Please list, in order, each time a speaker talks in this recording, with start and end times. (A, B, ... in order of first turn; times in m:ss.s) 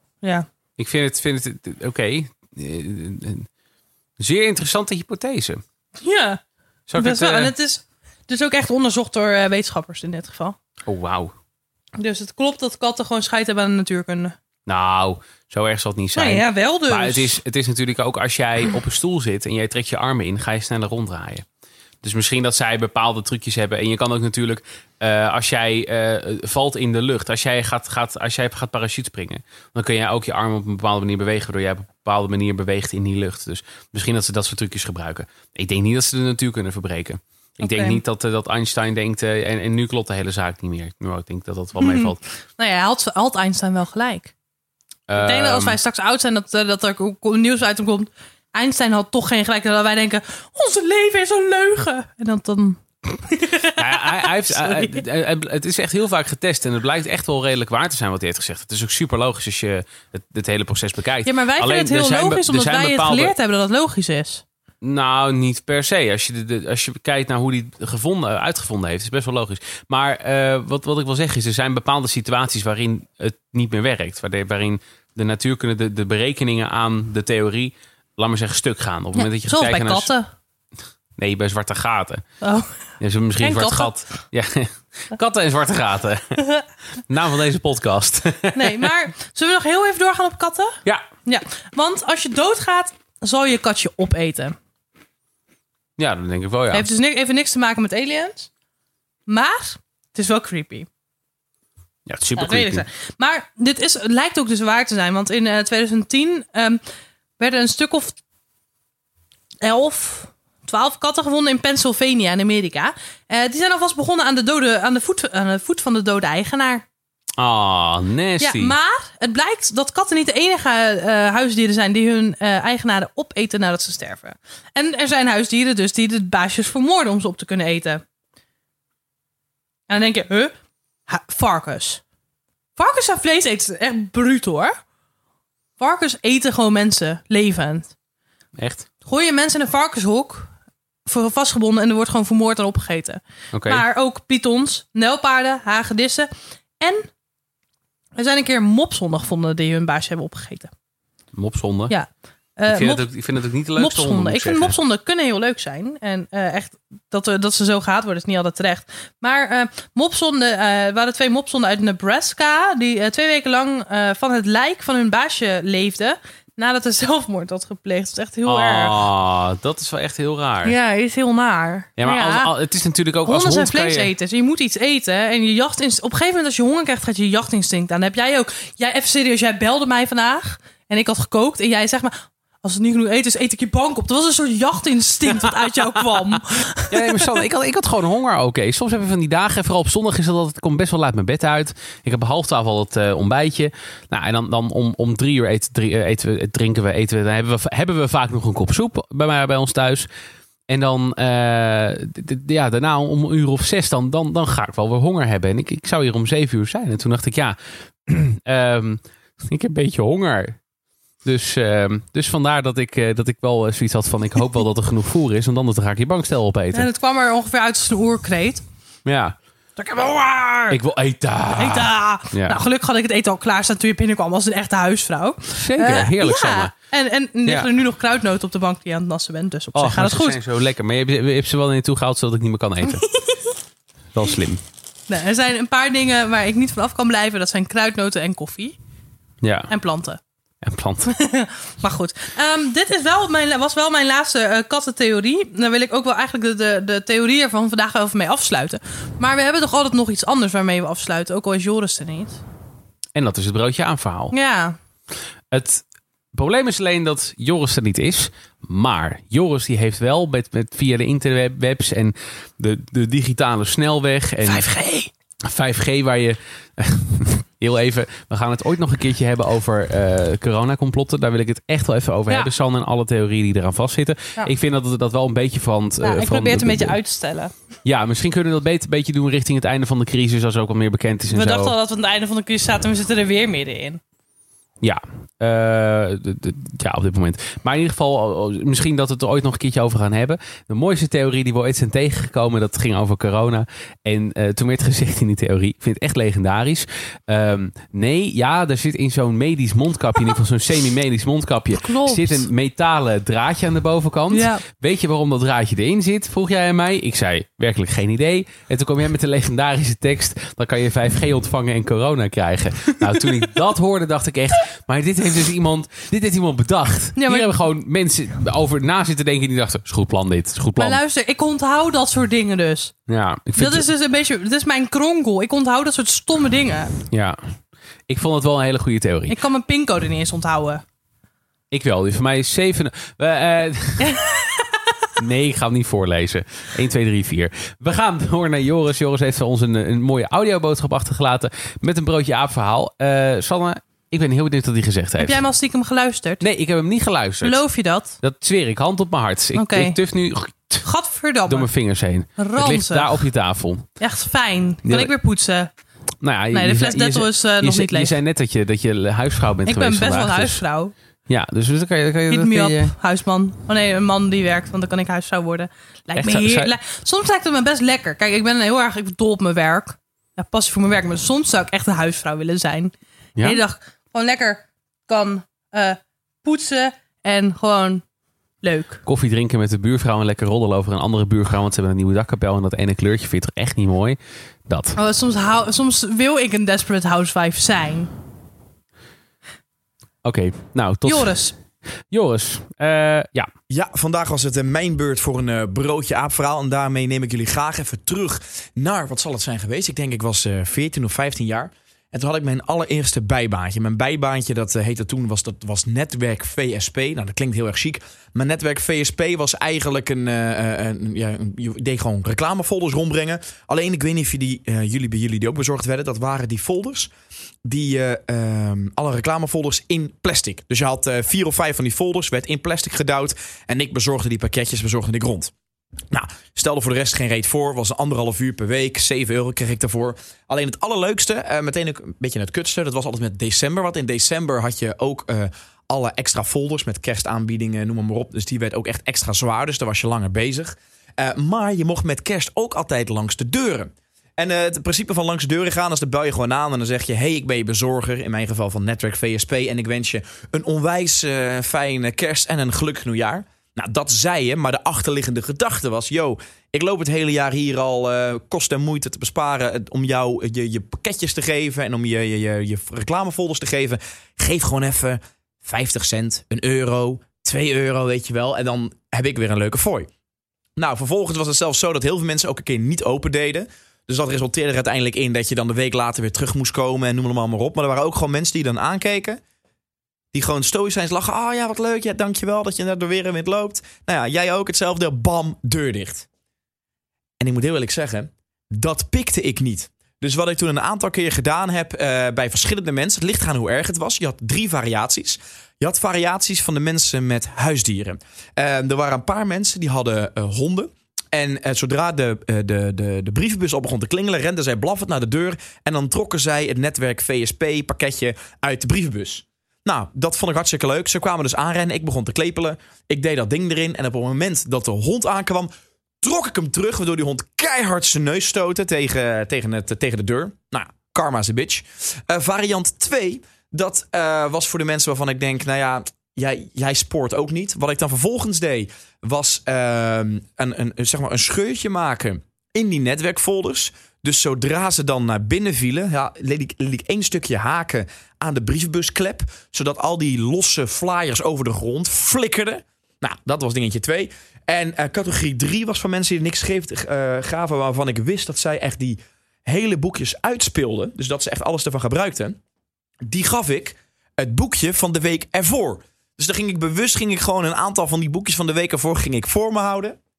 0:00.2-0:00.5 A
0:00.8-0:03.5 B
0:04.2-0:05.6 B
0:06.0-0:06.4 A
0:06.9-0:07.5 B
0:07.0-0:10.6 A
0:10.9-0:11.3 B
0:12.0-0:14.4 A
0:14.7-0:21.4 B
0:16.2-0:17.4 A
0:22.0-0:42.2 B
0:37.6-0:38.0 A
0:41.8-0:44.3 A
0:45.1-0:45.8 B
0:45.2-0:55.0 A
0:53.8-1:03.3 B
1:01.2-1:04.4 A
1:04.8-1:20.1 B
1:19.2-1:20.3 A
1:21.2-1:22.2 B
1:22.4-1:22.8 A
1:23.0-1:26.4 B
1:23.4-1:23.9 A
1:27.1-1:28.9 B
1:28.5-1:34.6 A
1:36.0-1:36.9 B
1:36.7-1:38.5 A
1:39.3-1:40.9 A
1:42.1-1:42.9 B
1:42.4-1:46.8 A
1:47.4-1:48.2 A
1:49.6-1:56.8 A
1:57.4-1:58.8 B
1:58.4-2:08.0 A
2:09.9-2:10.5 A
2:11.1-2:12.0 A
2:12.8-2:14.8 A
2:15.8-2:17.9 A
2:18.6-2:18.9 B
2:19.0-2:20.5 A
2:21.1-2:26.3 A
2:23.5-2:23.8 B
2:26.8-2:27.1 A
2:28.2-2:30.7 A
2:31.3-2:31.9 B
2:31.9-2:33.1 A
2:32.7-2:34.8 B
2:33.8-2:49.0 A
2:48.5-2:50.8 B
2:50.6-2:52.5 A
2:52.0-2:54.1 B
2:53.2-3:07.4 A
3:05.4-3:06.2 B
3:06.9-3:20.1 B
3:20.7-3:30.6 B
3:31.2-3:36.9 B
3:36.7-3:38.6 A
3:39.0-3:39.4 B
3:39.8-3:40.8 A
3:40.7-3:42.6 B
3:41.6-3:50.4 A
3:45.5-3:46.7 B
3:49.8-3:53.0 B
3:52.9-3:53.5 A
3:54.1-3:54.6 B
3:55.1-3:58.8 A
3:59.4-3:59.7 B
3:59.7-4:00.2 A
4:00.6-4:01.1 B
4:01.1-4:12.4 A
4:13.2-4:14.4 B
4:14.3-4:14.8 A
4:15.5-4:24.8 B
4:24.4-4:25.1 A
4:25.4-4:37.0 B
4:36.0-4:37.5 A
4:37.8-4:41.7 B
4:41.3-4:44.0 A
4:44.8-5:21.0 B
5:01.8-5:02.5 A
5:04.3-5:04.6 A
5:17.2-5:17.5 A
5:20.8-5:22.9 A
5:23.1-5:23.9 B
5:23.6-5:26.9 A
5:27.1-5:27.5 B
5:28.1-5:29.4 B
5:29.3-5:30.8 A
5:31.7-5:34.2 B
5:34.0-5:35.1 A
5:35.2-5:45.4 B
5:45.2-5:46.4 A
5:46.4-5:47.6 B
5:47.4-5:48.2 A
5:48.2-5:50.9 B
5:49.6-5:50.0 A
5:50.8-5:51.7 A
5:51.5-5:53.9 B
5:52.4-5:53.3 A
5:54.0-5:55.7 A
5:54.8-5:55.1 B
5:56.2-6:00.6 B
5:56.5-5:58.1 A
5:59.7-6:00.9 A
6:01.3-6:02.9 B
6:02.3-6:18.0 A
6:06.2-6:06.7 B
6:18.6-6:19.0 A
6:19.0-6:25.0 B
6:25.0-6:28.1 A
6:30.2-6:31.4 B
6:31.0-6:31.5 A
6:32.1-6:33.5 B
6:33.7-6:57.1 C
6:57.6-7:05.5 C
7:06.1-7:50.1 C
7:50.8-7:59.4 C
8:00.3-8:06.3 C
8:07.4-8:35.7 C
8:36.2-9:12.6 C
9:13.3-9:20.2 C